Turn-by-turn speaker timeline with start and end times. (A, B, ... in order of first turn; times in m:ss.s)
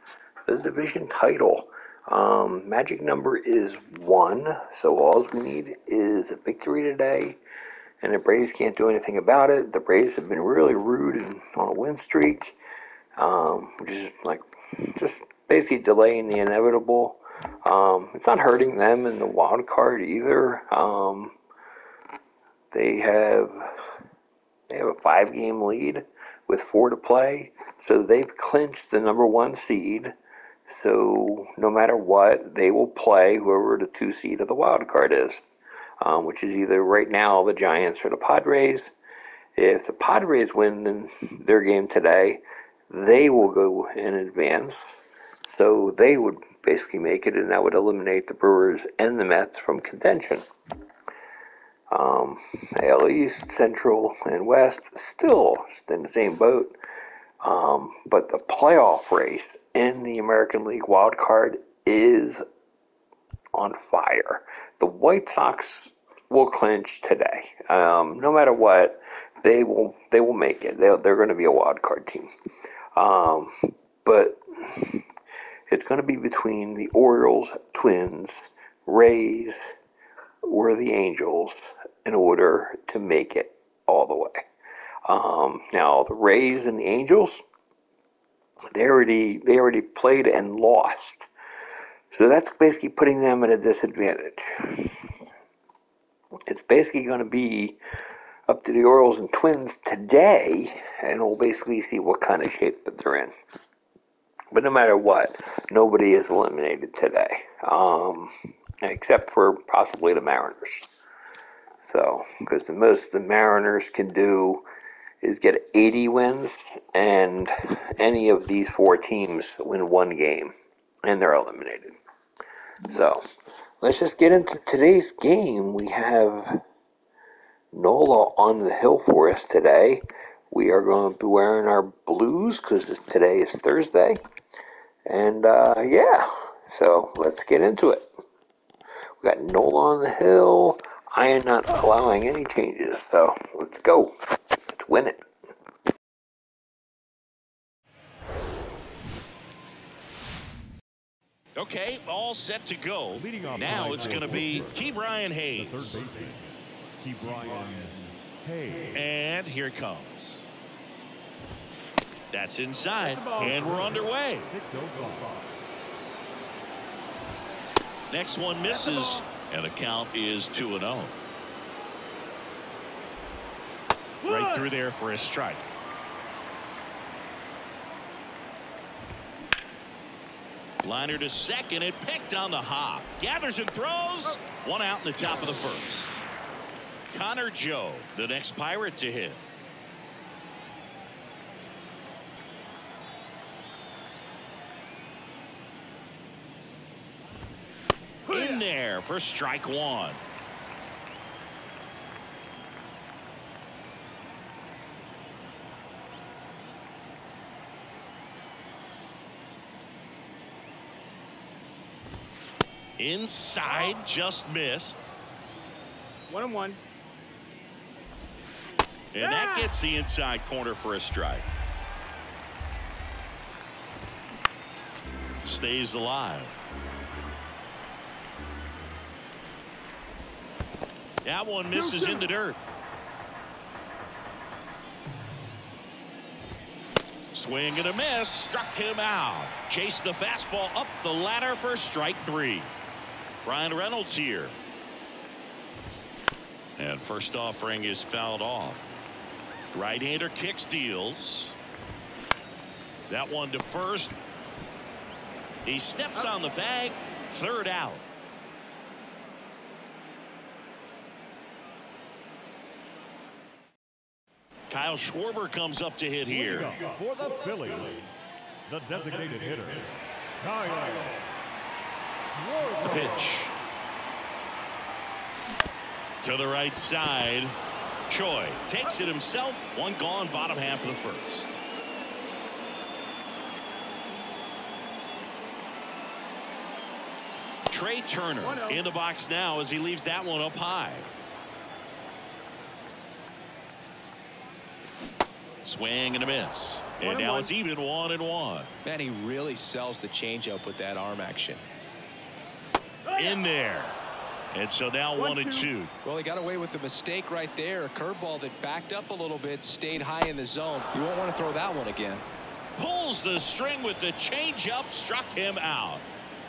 0:00.5-0:07.4 A
0:08.0-0:12.6 A
0:13.2-0:21.4 A
0:22.7-0:23.9 A
0:24.7-0:30.1 A
0:30.7-0:35.4 A
0:36.0-0:38.9 A
0:39.6-0:50.4 A
0:51.9-0:56.8 A
0:57.4-1:02.4 A
1:03.5-1:12.3 A
1:13.0-1:13.5 A
1:14.0-1:15.0 A
1:15.7-1:19.6 A
1:20.4-1:24.5 A
1:25.1-1:27.4 A
1:28.7-1:31.3 A
1:32.1-1:35.2 A
1:36.5-1:37.8 A
1:38.5-1:43.3 A
1:44.5-1:48.3 A
1:48.8-1:50.9 A
1:51.8-1:54.6 A
1:55.2-2:00.5 A
2:01.0-2:02.0 A
2:02.9-2:03.2 A
2:03.8-2:06.6 A
2:07.7-2:14.2 A
2:15.1-2:18.1 A
2:19.2-2:25.2 A
2:31.6-2:36.0 B
2:33.2-2:34.8 C
2:35.6-2:39.0 C
2:38.9-2:40.5 B
2:42.3-2:44.5 B
2:43.0-2:43.6 D
2:43.4-2:45.5 C
2:48.1-2:51.2 B
2:48.6-2:49.3 D
2:54.2-2:54.7 D
2:54.3-2:55.6 B
3:00.8-3:06.2 B
3:07.1-3:09.4 B
3:18.3-3:18.6 D
3:18.3-3:20.2 B
3:33.0-3:35.0 B
3:36.3-3:36.8 D
3:39.1-3:41.5 B
3:39.2-3:39.7 D
3:45.4-3:46.6 B
3:51.2-3:52.6 B
3:51.7-3:52.3 D
3:57.3-4:02.7 B
4:03.4-4:04.6 B
4:06.8-4:08.9 B
4:09.7-4:11.6 B
4:13.1-4:14.2 B
4:15.6-4:18.0 B
4:24.7-4:26.8 B
4:26.3-4:28.1 C
4:28.7-4:31.2 C
4:32.5-4:33.2 C
4:32.8-4:33.5 B
4:36.2-4:37.6 B
4:38.1-4:41.6 B
4:47.7-4:51.1 B
4:48.4-4:48.8 D
4:55.6-4:58.7 B
4:57.0-4:57.5 D
4:58.8-5:01.6 E
5:03.1-5:03.4 D
5:03.1-5:04.0 B
5:04.5-5:05.9 B
5:05.2-5:05.7 D
5:06.0-5:12.2 E
5:12.8-5:16.0 B